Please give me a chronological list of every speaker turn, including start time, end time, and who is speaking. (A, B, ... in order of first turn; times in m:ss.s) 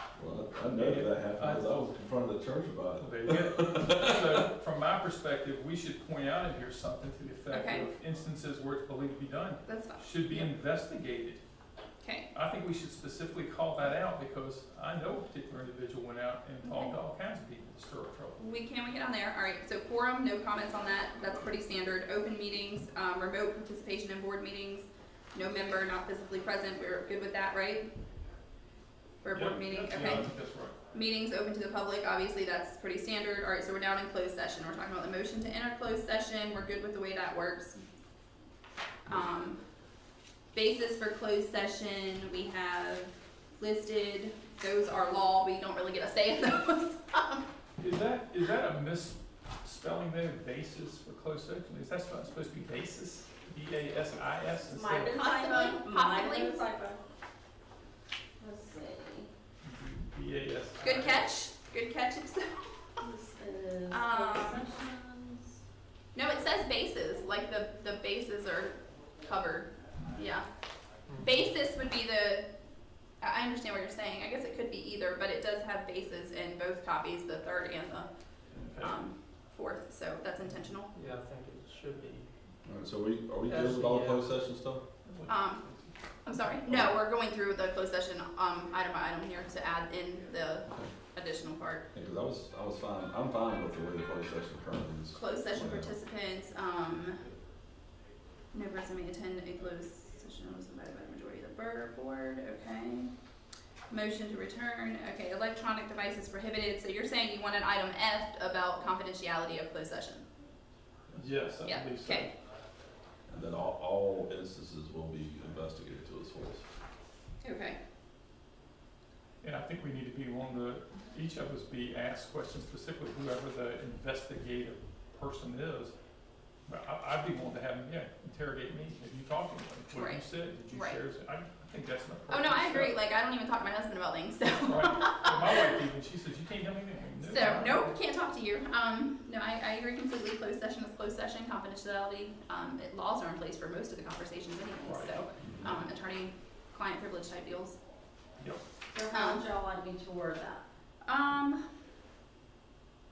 0:00.2-0:04.1 A
0:00.7-0:01.7 B
0:03.0-0:11.4 B
0:07.5-0:07.9 C
0:09.7-0:10.5 C
0:12.0-0:12.3 C
0:12.3-0:18.4 B
0:16.6-0:17.0 C
0:18.4-0:27.9 C
0:29.2-0:30.3 C
0:29.3-0:30.8 B
0:30.9-0:37.8 C
0:39.1-0:39.6 C
0:40.5-0:47.5 C
0:47.8-0:55.2 B
0:54.6-0:57.0 D
0:55.1-0:56.7 C
0:58.4-0:59.3 D
0:59.6-1:01.3 B
1:00.8-1:02.9 C
1:03.0-1:05.6 D
1:03.9-1:04.7 C
1:06.2-1:10.5 C
1:11.2-1:12.5 C
1:13.2-1:18.1 C
1:18.6-1:19.0 B
1:18.8-1:20.9 C
1:21.0-1:22.3 E
1:22.6-1:24.8 A
1:23.5-1:24.2 E
1:25.1-1:25.9 B
1:25.3-1:25.7 C
1:26.2-1:31.9 C
1:26.7-1:26.9 A
1:31.9-1:36.0 A
1:35.1-1:37.3 C
1:38.5-1:43.1 C
1:43.9-1:50.2 C
1:51.2-1:52.3 B
1:51.6-1:52.3 C
1:53.3-1:56.6 A
1:57.4-1:57.8 C
1:59.4-2:05.9 B
2:06.7-2:13.0 B
2:09.9-2:11.0 C
2:12.3-2:15.8 C
2:14.6-2:17.9 B
2:17.2-2:27.8 C
2:24.8-2:25.8 B
2:28.9-2:30.6 D
2:29.1-2:29.4 C
2:31.0-2:31.7 C